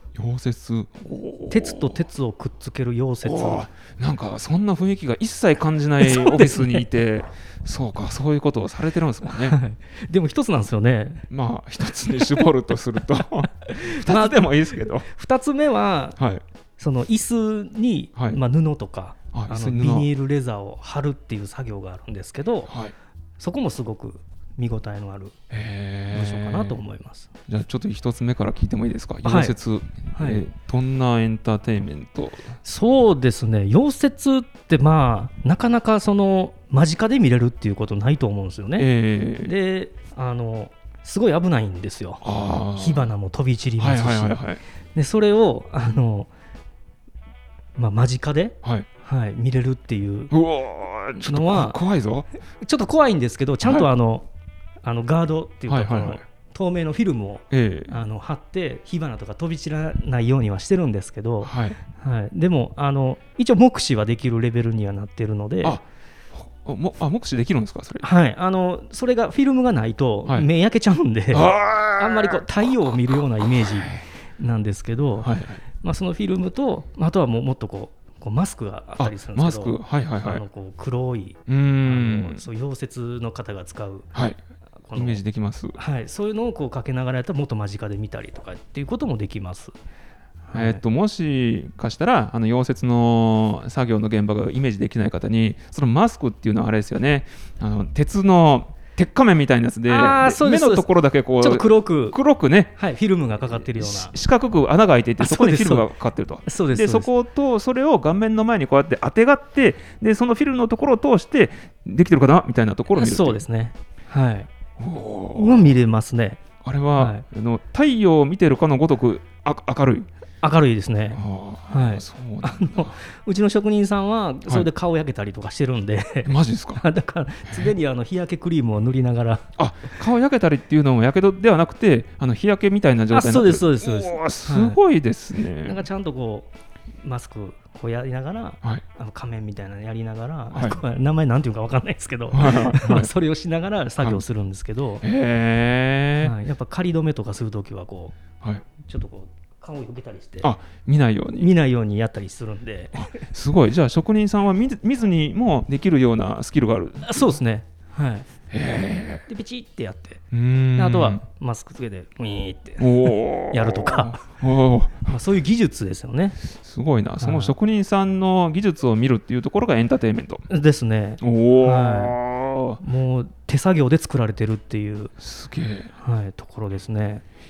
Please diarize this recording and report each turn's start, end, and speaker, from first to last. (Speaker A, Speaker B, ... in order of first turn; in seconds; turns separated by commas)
Speaker A: 0.1-2.0, Speaker B: 1.5-3.7, Speaker A: 3.2-9.6, Speaker B: 6.0-6.9, Speaker B: 9.3-11.2, Speaker A: 11.3-15.1, Speaker B: 12.0-12.5, Speaker B: 13.6-16.2, Speaker A: 16.2-16.4, Speaker B: 16.8-22.7, Speaker A: 19.3-20.1, Speaker A: 22.7-22.9, Speaker B: 23.4-25.4, Speaker A: 25.5-26.8, Speaker B: 26.1-27.3, Speaker A: 27.5-32.5, Speaker B: 29.2-29.5, Speaker B: 30.1-30.4, Speaker B: 32.6-44.4, Speaker A: 38.8-39.5, Speaker A: 42.2-43.1, Speaker A: 43.8-44.6, Speaker B: 44.9-46.3, Speaker B: 47.8-50.3, Speaker A: 50.3-52.3, Speaker B: 51.2-51.8, Speaker B: 52.6-54.3, Speaker B: 54.8-65.8, Speaker A: 55.7-56.2, Speaker A: 57.5-58.0, Speaker A: 61.4-61.8, Speaker A: 65.6-68.1, Speaker B: 68.0-84.1, Speaker A: 71.3-72.5, Speaker A: 73.1-74.0, Speaker A: 75.2-75.6, Speaker A: 79.0-80.4, Speaker A: 81.5-82.4, Speaker A: 84.1-84.4, Speaker B: 84.9-85.2, Speaker A: 84.9-85.8, Speaker B: 85.8-89.7, Speaker B: 90.5-90.8, Speaker A: 90.5-102.7, Speaker B: 99.9-100.9, Speaker B: 101.4-102.2, Speaker B: 102.8-104.1, Speaker A: 103.5-113.4, Speaker B: 105.2-105.9, Speaker B: 106.5-107.1, Speaker B: 113.0-114.5, Speaker A: 114.8-115.8, Speaker B: 115.3-116.4, Speaker A: 116.6-120.1, Speaker B: 117.0-117.2, Speaker B: 120.4-129.5, Speaker A: 121.1-123.0, Speaker A: 126.2-126.8, Speaker A: 127.5-127.7, Speaker A: 129.6-135.8, Speaker B: 133.1-134.8, Speaker B: 135.6-136.5, Speaker B: 137.0-145.0, Speaker A: 140.5-140.8, Speaker A: 142.3-143.1, Speaker A: 145.0-146.3, Speaker B: 146.2-148.2, Speaker B: 148.8-150.5, Speaker A: 150.4-151.5, Speaker B: 151.3-153.3, Speaker A: 152.9-157.4, Speaker B: 157.0-158.3, Speaker A: 158.5-159.2, Speaker B: 159.3-160.2, Speaker A: 160.3-161.2, Speaker B: 160.7-164.2, Speaker A: 162.8-165.2, Speaker B: 165.1-166.4, Speaker A: 166.4-170.5, Speaker B: 167.2-167.5, Speaker B: 170.5-172.2, Speaker A: 171.2-172.8, Speaker B: 172.8-175.1, Speaker A: 175.2-175.9, Speaker B: 176.0-177.2